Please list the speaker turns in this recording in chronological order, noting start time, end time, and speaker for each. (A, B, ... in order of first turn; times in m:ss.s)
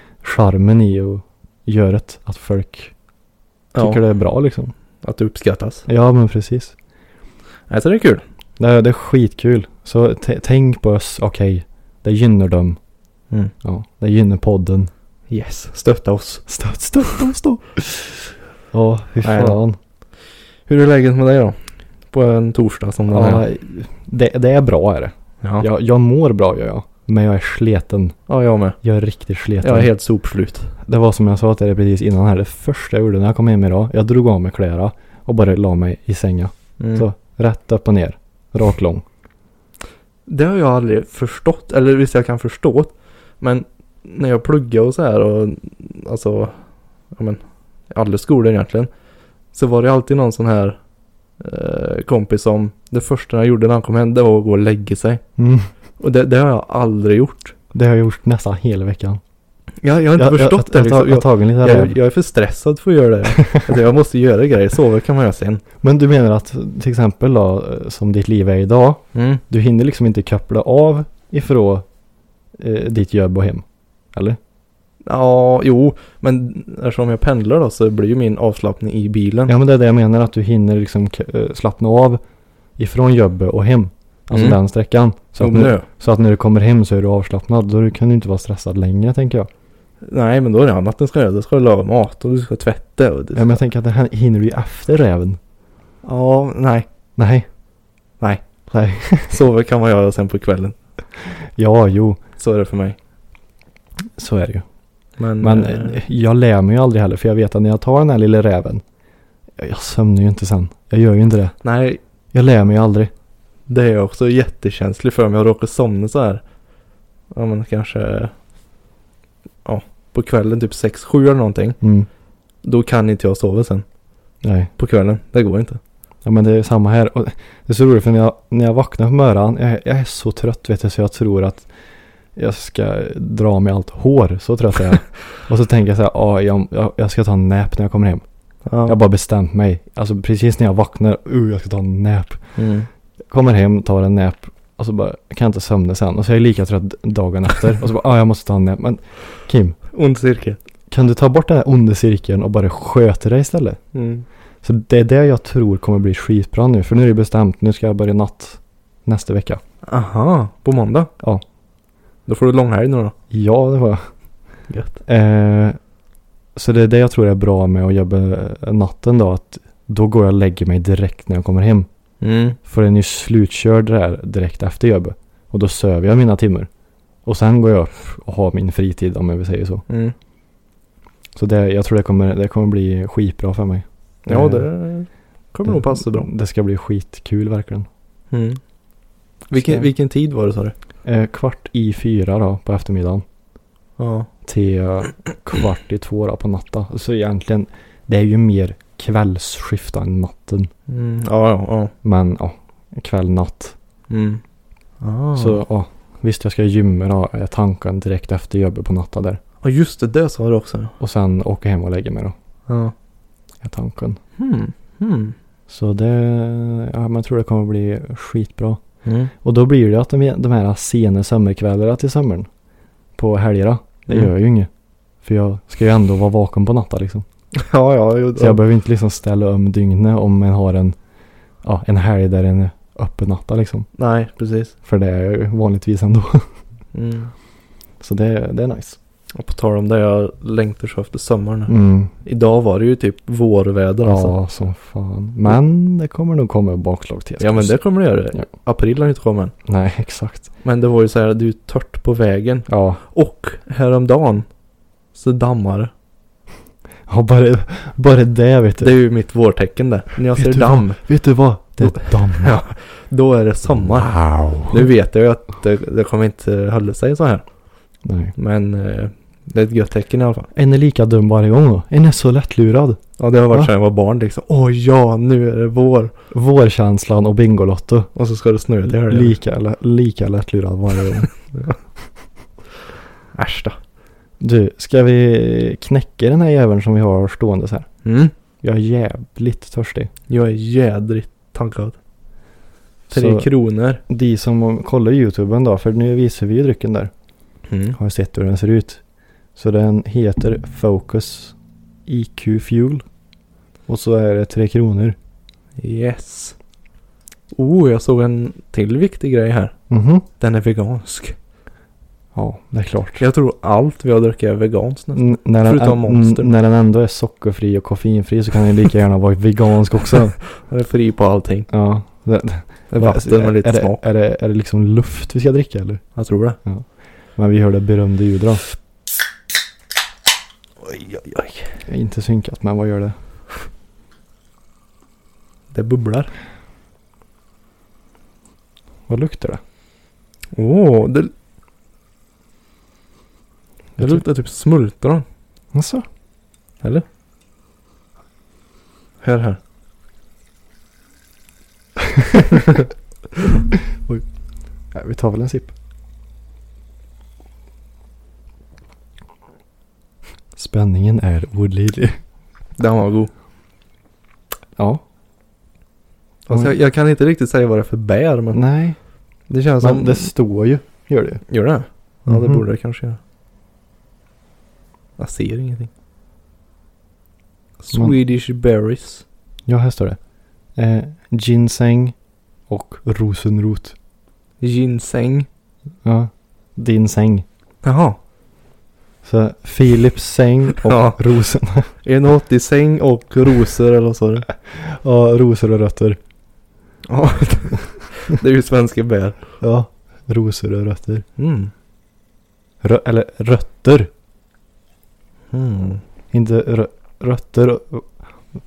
0:00.2-0:02.9 A
0:03.8-0:04.0 B
0:03.8-0:04.7 A
0:05.0-0:05.9 B
0:05.9-0:06.7 A
0:07.7-0:08.2 B
0:08.6-0:12.8 A
0:13.6-0:14.9 A
0:15.3-0:16.5 B
0:16.5-0:19.8 A
0:19.2-0:19.6 B
0:20.7-0:21.6 B
0:22.1-0:23.4 B
0:23.1-0:28.2 A
0:25.4-0:25.7 B
0:28.3-0:28.8 B
0:28.8-0:29.9 A
0:29.6-0:30.7 B
0:30.8-0:39.0 A
0:36.8-0:37.1 B
0:40.3-0:48.9 B
0:49.5-0:50.8 B
0:51.4-0:55.2 B
0:55.4-0:55.7 A
0:56.0-0:57.6 B
0:57.7-0:59.2 A
0:59.8-1:05.6 B
1:00.2-1:02.0 A
1:05.8-1:11.8 A
1:09.2-1:09.4 B
1:12.6-1:14.4 A
1:15.0-1:19.5 B
1:19.5-1:22.2 A
1:22.8-1:29.5 A
1:24.3-1:24.6 B
1:25.4-1:25.9 B
1:30.0-1:33.6 B
1:33.4-1:35.4 A
1:36.0-1:36.9 B
1:37.2-1:37.5 A
1:38.7-1:39.4 A
1:39.3-1:40.8 B
1:41.6-1:42.2 A
1:42.4-1:43.0 B
1:44.2-1:44.6 A
1:45.2-1:46.0 B
1:45.4-1:48.8 A
1:49.6-1:51.6 A
1:51.6-1:52.0 B
1:52.3-1:53.1 A
1:53.7-1:56.4 B
1:57.3-1:58.3 B
1:59.6-2:01.8 B
2:01.8-2:02.1 A
2:02.6-2:03.8 B
2:04.4-2:04.7 A
2:04.8-2:05.8 B
2:06.2-2:11.7 A
2:12.4-2:18.2 A
2:18.7-2:19.0 B
2:18.8-2:22.4 A
2:22.6-2:22.9 B
2:23.3-2:29.8 A
2:29.9-2:30.6 B
2:30.9-2:33.8 A
2:33.9-2:34.3 B
2:34.6-2:39.6 A
2:39.9-2:41.1 B
2:42.3-2:43.1 B
2:43.3-2:44.1 A
2:44.7-2:45.0 B
2:45.1-2:45.8 A
2:46.6-2:51.9 A
2:52.2-2:52.6 B
2:52.7-2:56.7 A
2:57.2-2:59.8 A
2:59.9-3:00.1 B
3:01.4-3:04.7 A
3:04.3-3:06.3 B
3:05.7-3:07.9 A
3:08.3-3:08.6 B
3:09.5-3:10.7 B
3:09.5-3:09.9 A
3:11.0-3:13.2 A
3:14.0-3:14.3 B
3:14.5-3:20.7 A
3:20.9-3:21.9 B
3:22.0-3:23.8 A
3:24.1-3:24.4 B
3:25.0-3:25.6 B
3:25.4-3:29.4 A
3:29.6-3:30.9 B
3:31.0-3:32.3 A
3:32.7-3:32.9 B
3:33.6-3:34.2 A
3:34.4-3:35.4 B
3:35.7-3:38.8 A
3:39.0-3:39.3 B
3:39.4-3:42.5 A
3:43.2-3:44.7 A
3:45.2-3:47.2 A
3:47.5-3:48.6 B
3:48.4-3:51.0 A
3:51.6-3:53.9 A
3:54.0-3:54.7 B
3:54.8-3:56.5 A
3:56.9-3:57.3 B
3:58.0-3:59.0 A
3:59.4-4:04.4 B
4:01.7-4:02.1 A
4:04.0-4:07.8 A
4:07.4-4:09.5 B
4:09.7-4:10.5 A
4:10.6-4:14.5 B
4:12.7-4:13.0 A
4:15.1-4:15.9 B
4:17.1-4:18.9 A
4:18.8-4:21.0 B
4:20.3-4:22.6 A
4:21.8-4:27.4 B
4:23.8-4:24.9 A
4:28.0-4:28.3 A
4:28.4-4:30.5 B
4:30.5-4:33.0 A
4:33.2-4:36.1 B
4:36.3-4:38.1 A
4:38.2-4:39.4 B
4:39.1-4:41.3 A
4:43.3-4:43.8 B
4:44.4-4:47.9 A
4:48.0-4:48.3 B
4:48.6-4:50.1 A
4:50.3-4:52.0 B
4:53.1-4:53.5 A
4:53.1-4:54.0 B
4:54.1-4:57.1 A
4:57.7-4:58.0 B
4:58.0-4:59.0 A
4:59.6-5:01.6 A
5:02.1-5:03.0 A
5:03.9-5:05.2 A
5:05.8-5:06.6 B
5:07.5-5:09.7 B
5:09.9-5:10.3 A
5:10.4-5:11.4 B
5:12.4-5:13.2 A
5:13.2-5:16.5 B
5:15.1-5:20.4 A
5:20.6-5:21.7 B
5:21.7-5:26.0 A
5:22.9-5:24.0 B
5:26.2-5:26.6 B
5:26.6-5:28.6 A
5:30.8-5:31.7 B
5:31.9-5:33.2 A
5:35.7-5:36.3 B
5:39.1-5:39.6 A
5:40.6-5:41.3 B
5:44.0-5:44.2 A
5:44.0-5:45.2 B
5:45.7-5:46.0 A
5:49.2-5:49.6 B
5:52.1-5:52.6 A
5:54.9-5:55.7 A
6:00.6-6:02.2 A
6:02.8-6:03.3 B
6:04.8-6:05.0 A
6:06.5-6:08.6 B
6:08.5-6:09.0 A
6:09.5-6:10.3 B
6:09.8-6:11.4 A
6:11.5-6:13.2 B
6:12.3-6:12.6 A
6:15.2-6:15.9 B
6:17.8-6:19.2 B
6:19.7-6:20.2 A
6:20.8-6:22.2 A
6:22.7-6:24.0 A
6:24.6-6:25.5 B
6:26.0-6:27.4 A
6:27.8-6:28.2 B
6:29.2-6:31.9 A
6:30.8-6:31.2 B
6:32.0-6:34.5 B
6:34.7-6:36.2 A
6:37.1-6:39.4 B
6:39.6-6:41.2 A
6:41.4-6:41.7 B
6:42.8-6:44.1 A
6:45.5-6:46.0 B
6:46.3-6:48.1 A